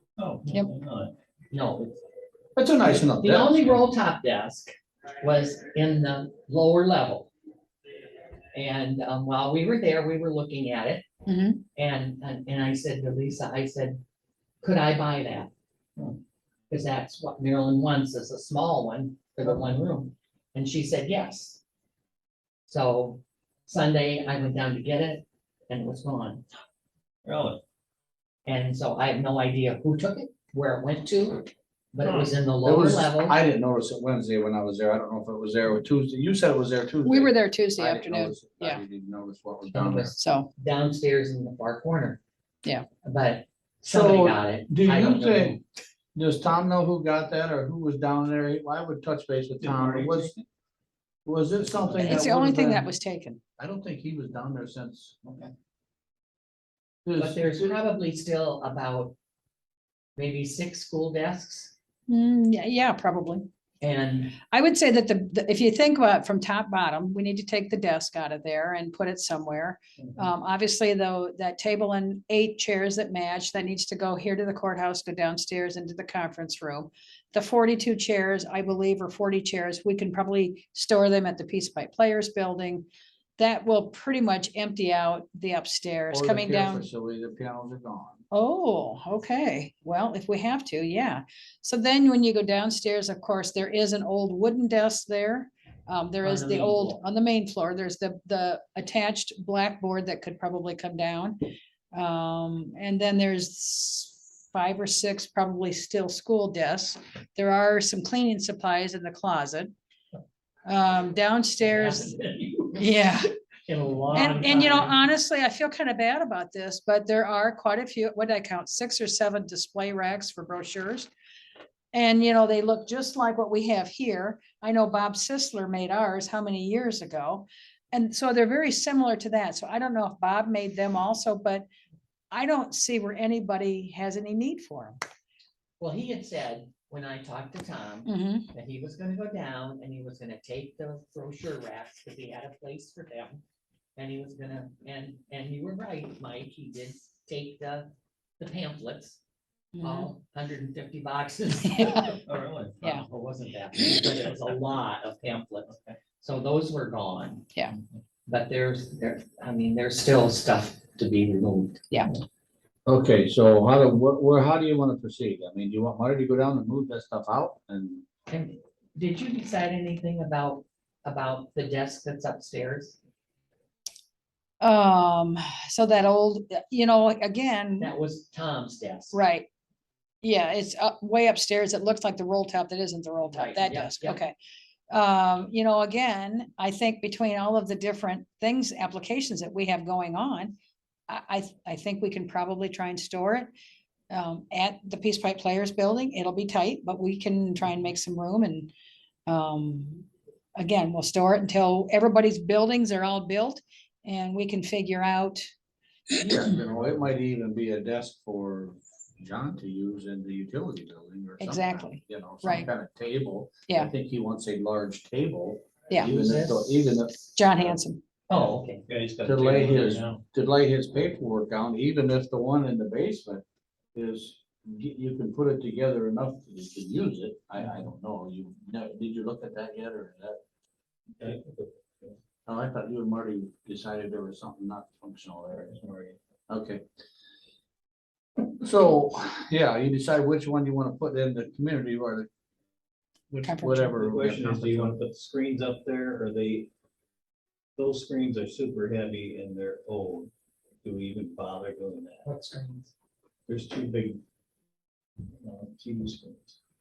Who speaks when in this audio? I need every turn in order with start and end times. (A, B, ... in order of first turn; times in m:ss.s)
0:00.2-0:01.1 A
0:01.5-0:02.0 B
0:02.6-0:03.6 C
0:03.0-0:07.3 B
0:08.5-0:11.0 B
0:11.2-0:11.6 D
0:11.7-0:14.0 B
0:14.6-0:15.5 B
0:16.7-0:21.6 B
0:22.7-0:26.4 B
0:27.2-0:27.6 A
0:28.4-0:33.4 B
0:32.0-0:32.3 A
0:32.6-0:40.1 C
0:37.0-0:38.8 D
0:39.7-0:42.2 B
0:40.2-0:40.5 D
0:43.0-0:45.6 B
0:43.8-0:45.6 C
0:46.1-0:50.3 C
0:49.6-0:50.4 A
0:51.2-0:52.9 C
0:51.6-0:52.3 A
0:52.0-0:53.4 D
0:53.6-0:55.2 C
0:55.2-0:55.5 A
0:57.0-0:57.8 C
0:57.2-0:59.1 B
1:00.2-1:01.7 B
1:02.1-1:03.5 D
1:03.8-1:04.4 B
1:04.4-1:22.9 D
1:23.4-1:26.8 D
1:26.1-1:28.2 C
1:28.3-1:41.4 D
1:36.2-1:37.0 B
1:41.9-1:49.7 D
1:50.6-1:52.2 D
1:51.6-1:53.1 B
1:52.8-1:53.3 D
1:53.7-1:55.0 B
1:54.1-2:01.1 D
2:01.9-2:11.6 D
2:12.3-2:15.0 D
2:15.8-2:23.4 B
2:18.0-2:18.4 D
2:24.0-2:29.2 B
2:29.7-2:30.1 D
2:29.8-2:32.2 B
2:31.6-2:32.2 D
2:32.2-2:33.0 A
2:32.8-2:37.5 B
2:38.2-2:41.8 B
2:42.9-2:48.0 C
2:48.3-2:53.0 B
2:54.6-2:57.9 D
2:57.8-2:59.2 B
2:59.1-2:59.5 D
3:00.2-3:04.3 D
3:03.3-3:04.2 B
3:04.9-3:10.5 D
3:11.1-3:13.5 D
3:14.1-3:18.7 D
3:19.3-3:25.5 D
3:26.2-3:37.8 C
3:31.4-3:32.7 D
3:36.0-3:36.9 B
3:37.3-3:38.0 D
3:38.3-3:38.8 B
3:38.8-3:40.2 A
3:39.2-3:50.4 C
3:51.2-3:52.2 A
3:52.4-3:55.7 C
3:55.7-3:56.2 A
3:56.5-3:56.8 C
3:58.6-4:02.3 C
4:03.3-4:05.0 C
4:03.4-4:03.9 D
4:03.9-4:06.7 A
4:07.8-4:10.3 A
4:10.8-4:12.3 A
4:12.2-4:12.9 B
4:13.5-4:14.2 A
4:15.2-4:16.5 A